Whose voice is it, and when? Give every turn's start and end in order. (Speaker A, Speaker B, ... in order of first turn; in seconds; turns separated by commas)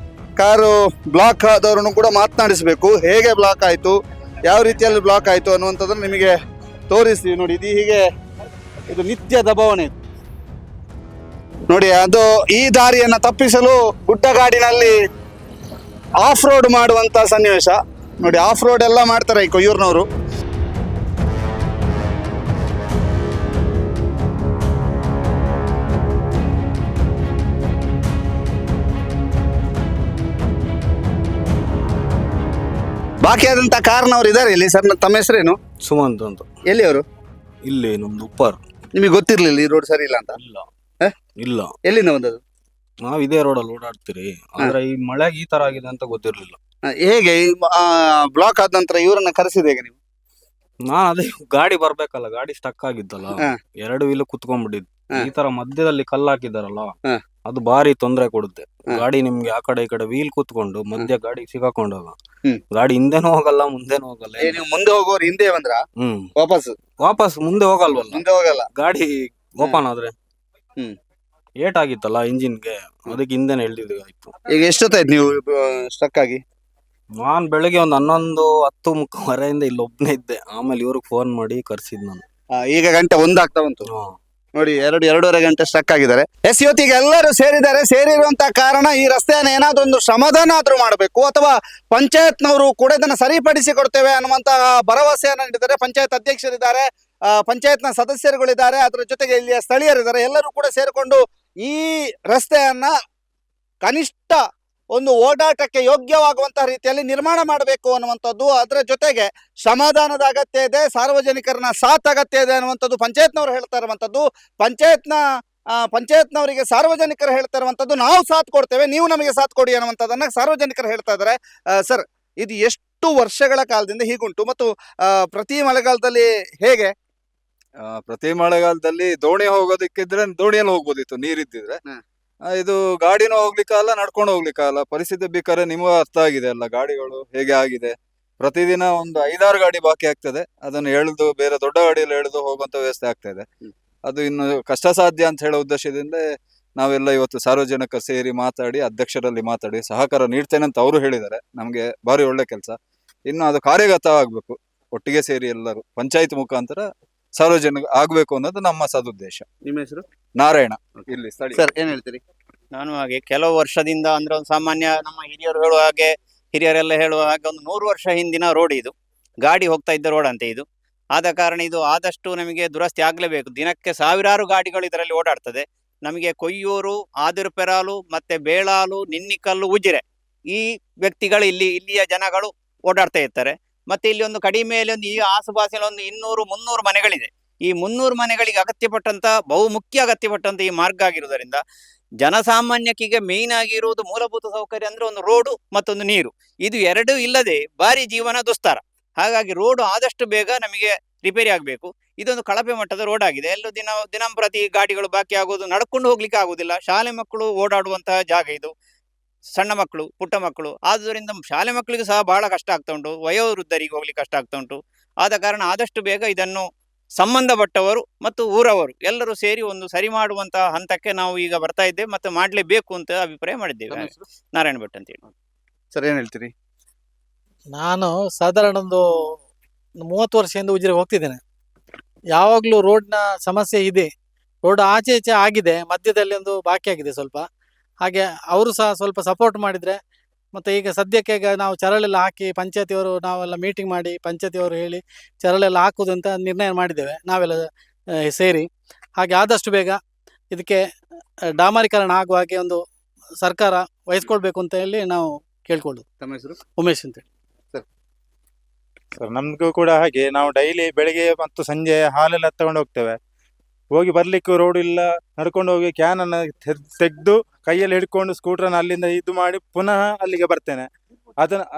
Speaker A: 0.4-4.0, Speaker A: 4.5-6.3, Speaker A: 6.9-8.0, Speaker A: 8.9-9.9, Speaker A: 11.7-14.9, Speaker A: 16.2-20.1, Speaker A: 33.2-35.6, Speaker B: 35.9-36.5, Speaker A: 36.7-37.0, Speaker B: 37.6-38.6, Speaker A: 39.0-40.4, Speaker B: 40.4-40.7, Speaker B: 41.4-41.7, Speaker A: 41.8-42.4, Speaker B: 43.0-46.6, Speaker A: 46.8-50.0, Speaker B: 50.9-56.9, Speaker B: 57.5-62.2, Speaker B: 62.7-64.6, Speaker A: 64.4-65.8, Speaker B: 66.0-66.2, Speaker A: 66.4-66.8, Speaker B: 67.0-70.2, Speaker A: 68.1-68.7, Speaker B: 71.6-74.3, Speaker A: 74.5-76.4, Speaker B: 77.2-82.2, Speaker A: 82.5-83.9, Speaker B: 83.8-84.2, Speaker A: 84.6-102.9, Speaker A: 103.8-104.4, Speaker A: 104.9-115.2, Speaker A: 115.8-126.9, Speaker C: 127.8-131.8, Speaker C: 132.6-143.5, Speaker C: 144.1-146.2, Speaker C: 146.8-152.8, Speaker C: 153.3-156.8, Speaker C: 157.4-159.4, Speaker A: 159.7-160.0, Speaker C: 160.4-161.7, Speaker A: 161.5-162.2, Speaker D: 162.7-191.6, Speaker D: 192.2-208.7, Speaker D: 209.6-225.2, Speaker A: 223.9-224.2, Speaker A: 225.9-226.5, Speaker E: 227.8-229.0, Speaker E: 230.1-231.4, Speaker E: 232.3-234.1, Speaker E: 234.7-237.5, Speaker E: 238.0-240.0, Speaker E: 240.6-247.7, Speaker E: 248.3-248.7, Speaker E: 249.2-250.0, Speaker E: 250.5-250.8, Speaker E: 251.6-252.8, Speaker E: 253.4-256.0, Speaker A: 256.2-256.6, Speaker E: 256.8-257.2, Speaker F: 259.2-263.1, Speaker D: 259.3-261.0, Speaker F: 263.9-270.9